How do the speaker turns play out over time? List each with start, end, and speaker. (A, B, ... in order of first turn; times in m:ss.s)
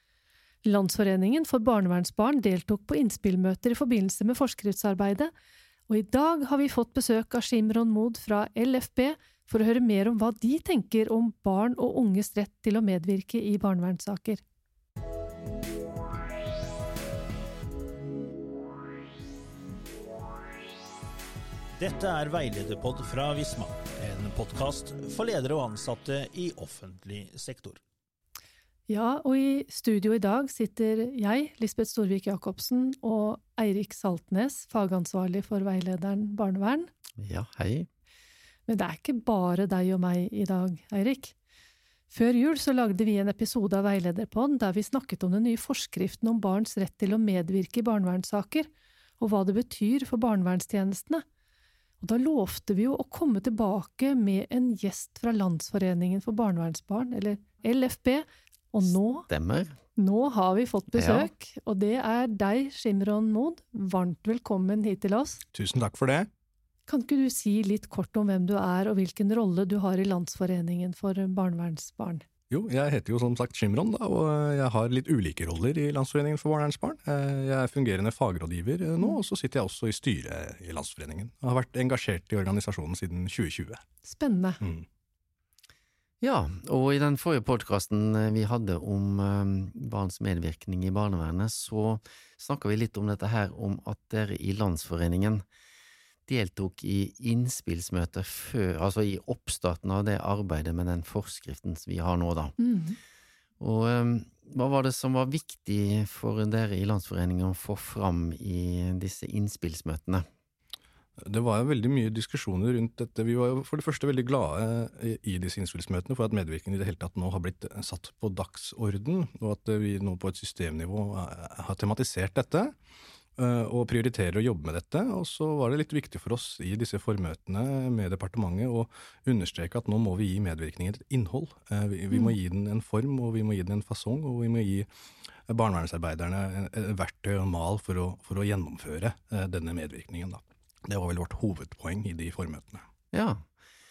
0:00.6-0:05.3 A
0:05.9-0:14.4 A
0:21.8-0:27.8 B
0:28.9-0:36.9 A
0:37.2-0:37.9 C
0:38.7-0:41.3 A
0:42.1-0:48.7 A
0:49.2-0:51.2 A
0:52.0-0:59.3 A
0:59.3-0:59.8 C
1:00.0-1:05.4 A
1:00.9-1:01.3 C
1:05.5-1:06.3 D
1:06.9-1:12.2 A
1:12.5-1:23.8 D
1:24.0-1:24.6 A
1:24.6-1:24.8 D
1:26.2-1:35.4 C
1:36.3-1:42.6 C
1:42.6-1:43.0 A
1:43.6-1:50.2 C
1:51.2-2:02.7 D
2:03.4-2:14.9 D
2:15.5-2:22.8 D
2:23.1-2:23.4 C